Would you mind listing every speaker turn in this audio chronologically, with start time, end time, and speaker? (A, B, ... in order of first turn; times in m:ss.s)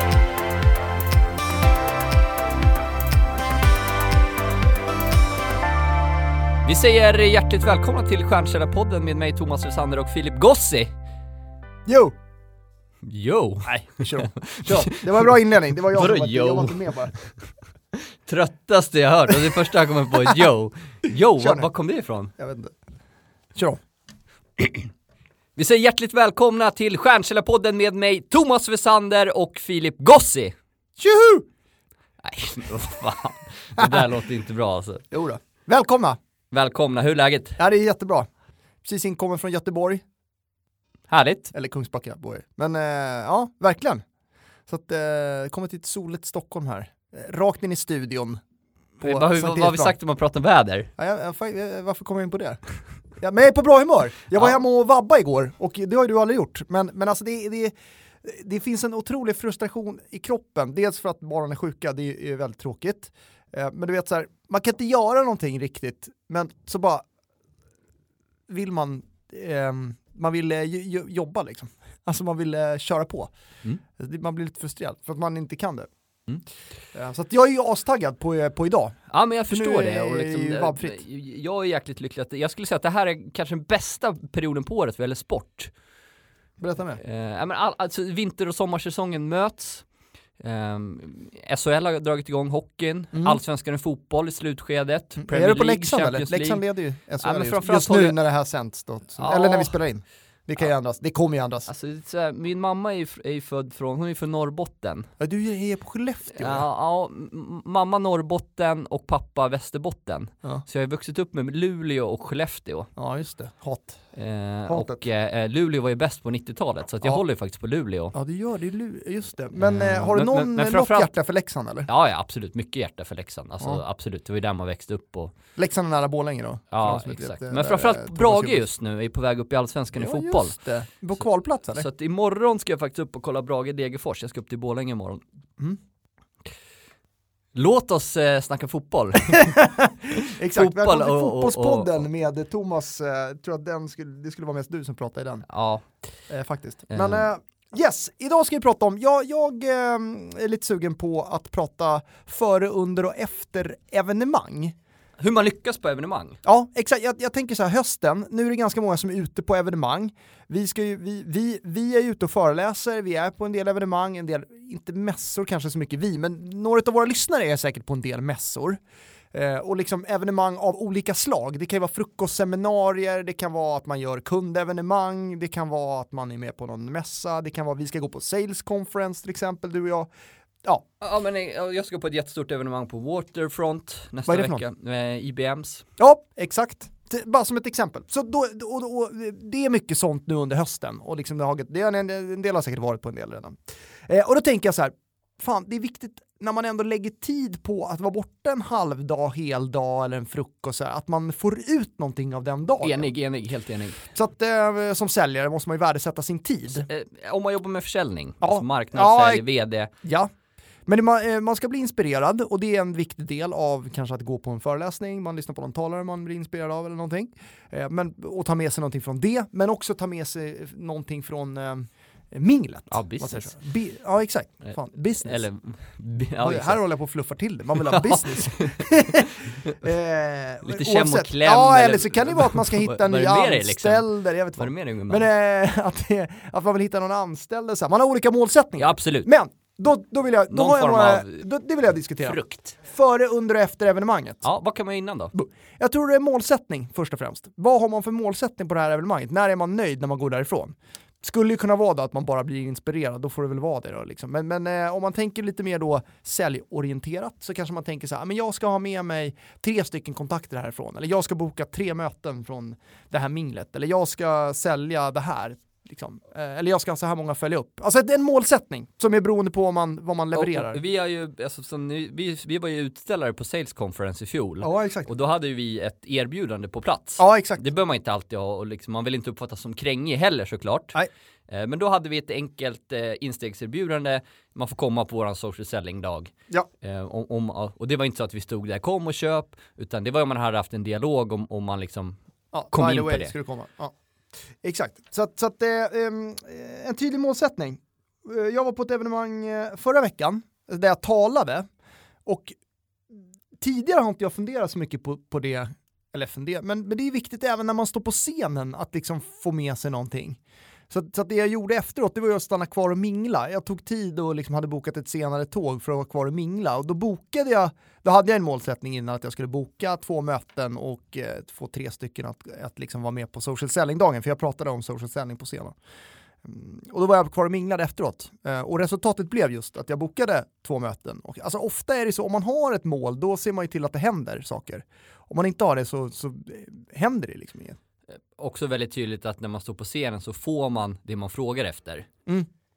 0:06.6-0:10.9 A
0:11.9-0:12.1 B
0:13.0-0:15.3 A
0:13.6-0:17.1 B
0:15.9-0:17.3 A
0:18.0-0:22.3 A
0:21.4-0:21.7 B
0:22.4-0:22.8 B
0:25.6-0:30.6 A
0:31.0-0:31.5 B
0:32.2-0:35.1 A
0:33.8-0:34.1 B
0:35.1-0:36.2 B
0:36.5-0:37.6 A
0:37.6-0:38.3 B
0:38.8-0:40.0 B
0:41.1-0:41.5 A
0:41.5-0:44.0 B
0:44.7-0:48.4 B
0:49.0-0:50.0 B
0:49.0-0:50.9 A
0:51.0-1:07.0 B
1:08.5-1:13.3 B
1:14.0-1:15.9 B
1:16.9-1:19.0 B
1:19.1-1:25.7 A
1:19.5-1:21.0 B
1:26.6-1:27.0 B
1:27.0-1:29.9 A
1:30.4-1:36.6 A
1:33.1-1:33.4 B
1:35.2-1:41.7 B
1:37.2-1:38.2 A
1:39.2-1:39.8 A
1:41.7-1:45.1 A
1:45.2-1:46.7 B
1:46.3-1:52.9 A
1:53.0-1:54.0 B
1:54.1-1:58.1 A
1:54.7-1:55.0 B
1:58.1-2:01.9 B
1:59.6-2:01.1 A
2:01.9-2:05.3 A
2:05.6-2:08.7 B
2:06.7-2:10.6 A
2:10.0-2:11.9 B
2:11.2-2:15.2 A
2:17.6-2:19.6 A
2:19.4-2:25.5 B
2:20.1-2:22.1 A
2:25.5-2:25.9 A
2:26.3-2:34.8 B
2:26.9-2:27.3 A
2:35.2-2:36.4 A
2:36.4-2:48.8 B
2:49.3-3:00.1 B
3:01.0-3:05.8 A
3:04.3-3:04.6 B
3:06.0-3:23.1 B
3:22.8-3:24.0 A
3:24.2-3:26.9 B
3:26.9-3:29.9 A
3:28.4-3:29.4 B
3:30.0-3:30.3 B
3:30.9-3:45.4 B
3:42.9-3:43.6 A
3:44.6-3:46.8 A
3:46.4-4:04.5 B
3:47.8-3:49.9 A
3:50.6-3:55.3 A
3:58.8-3:59.3 A
4:00.5-4:01.5 A
4:02.2-4:02.8 A
4:04.4-4:05.3 A
4:05.3-4:30.8 B
4:30.4-4:41.0 A
4:34.6-4:35.1 B
4:37.2-4:37.6 B
4:41.5-4:52.2 A
4:52.5-4:53.9 B
4:52.7-4:53.3 A
4:54.6-5:01.7 B
5:02.3-5:02.6 B
5:03.1-5:10.4 B
5:10.9-5:25.8 B
5:26.4-5:37.8 B
5:38.4-5:42.1 A